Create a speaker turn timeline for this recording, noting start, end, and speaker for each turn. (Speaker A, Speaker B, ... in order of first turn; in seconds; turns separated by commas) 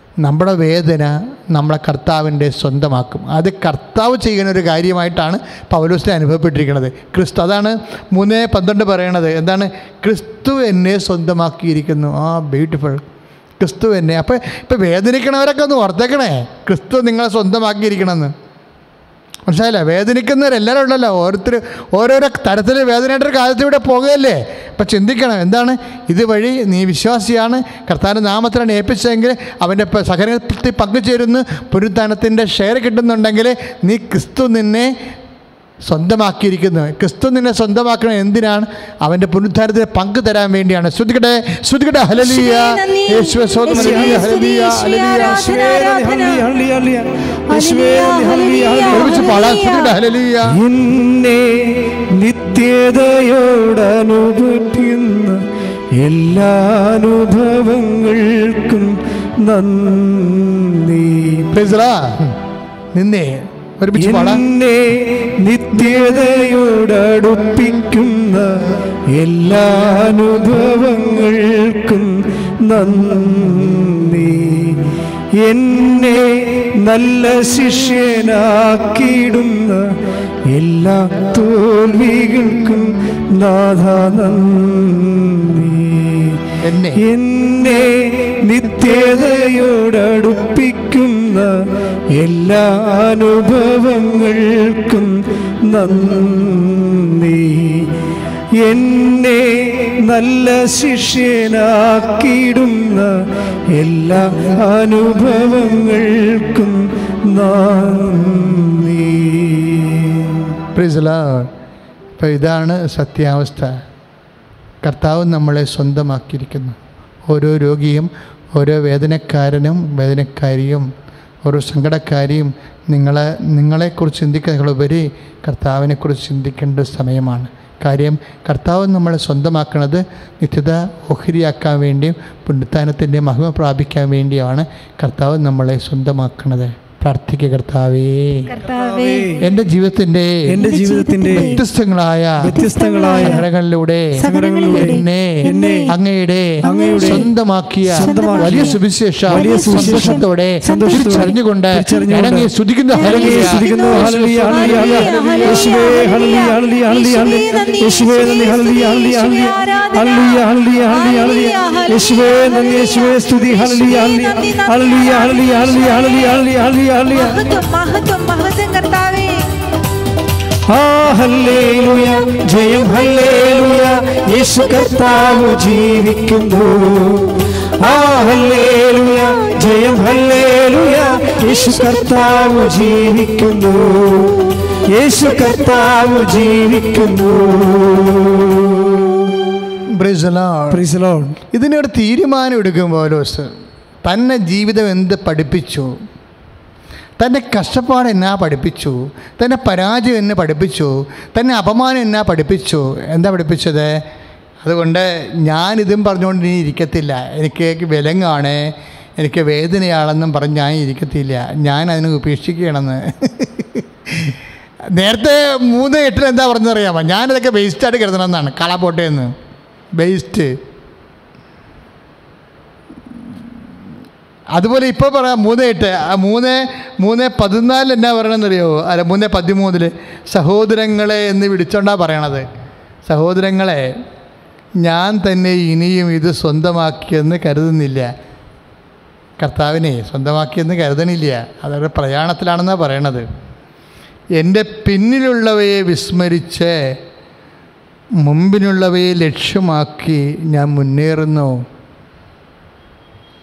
Speaker A: 0.2-13.0, Speaker A: 13.6-18.3, Speaker A: 19.5-34.9, Speaker A: 35.8-45.4, Speaker B: 42.2-46.4, Speaker C: 43.7-44.4, Speaker C: 45.1-49.4, Speaker B: 47.5-50.0, Speaker A: 48.9-50.6, Speaker C: 50.5-55.4, Speaker C: 56.0-61.5, Speaker A: 61.5-62.4, Speaker A: 62.9-64.4, Speaker C: 64.0-86.5, Speaker A: 86.6-87.0, Speaker C: 87.0-91.5, Speaker C: 92.1-97.9, Speaker C: 98.6-103.2, Speaker C: 103.7-110.5, Speaker A: 110.7-111.5, Speaker A: 112.2-113.7, Speaker A: 114.8-116.8, Speaker A: 117.3-120.9, Speaker A: 121.4-138.5, Speaker B: 138.5-139.5, Speaker C: 138.6-139.5, Speaker A: 139.4-140.5, Speaker C: 140.5-141.6, Speaker B: 140.5-141.6, Speaker A: 141.3-142.5, Speaker C: 142.4-143.4, Speaker B: 142.4-143.5, Speaker A: 143.1-155.7, Speaker B: 144.2-145.9, Speaker C: 144.2-145.9, Speaker B: 146.6-147.3, Speaker C: 146.6-147.3, Speaker C: 147.8-167.6, Speaker B: 148.0-148.8, Speaker B: 149.3-151.3, Speaker B: 152.9-166.1, Speaker B: 167.1-169.5, Speaker C: 170.7-189.6, Speaker A: 189.9-190.8, Speaker C: 190.7-191.4, Speaker A: 191.5-193.5, Speaker A: 194.0-195.9, Speaker A: 197.2-204.0, Speaker A: 204.6-214.4, Speaker A: 214.9-219.3, Speaker A: 220.0-220.5, Speaker A: 224.5-232.4, Speaker A: 233.1-233.9, Speaker A: 234.8-238.1, Speaker A: 239.4-243.2, Speaker A: 244.4-246.7, Speaker A: 248.2-251.6